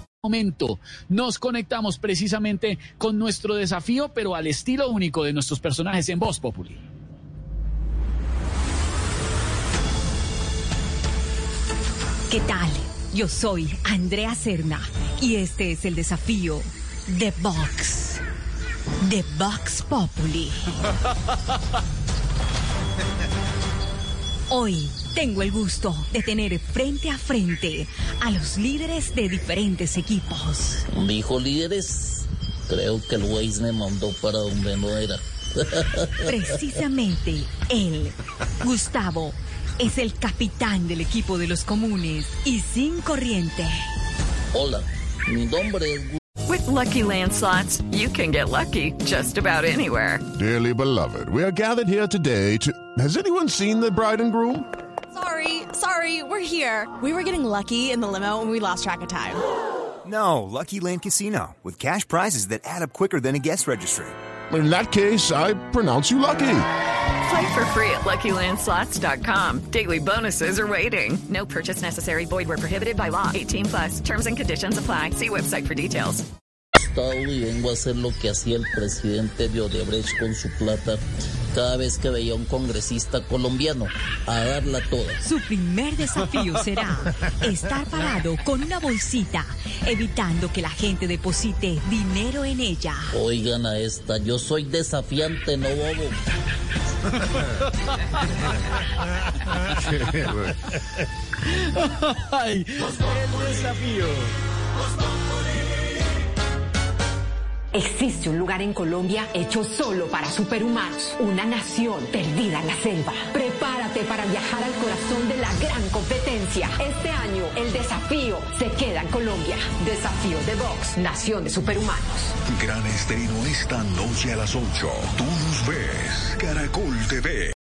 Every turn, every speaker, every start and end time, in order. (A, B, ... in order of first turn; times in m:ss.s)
0:00.2-0:06.8 A
0:12.3-0:18.2 B
0:19.0-0:20.7 B
0:24.5-0:30.8 B
0:30.9-0:36.8 C
0:36.3-0:43.9 B
0:44.5-0:46.2 C
0:46.5-0:50.2 D
0:50.4-0:54.7 E
0:55.1-0:59.4 F
1:00.0-1:04.2 G
1:04.5-1:06.7 E
1:07.2-1:16.2 D
1:16.9-1:25.2 C
1:25.2-1:33.1 B
1:33.1-1:36.2 C
1:42.2-1:44.2 A
1:47.7-2:02.3 H
2:02.5-2:07.5 I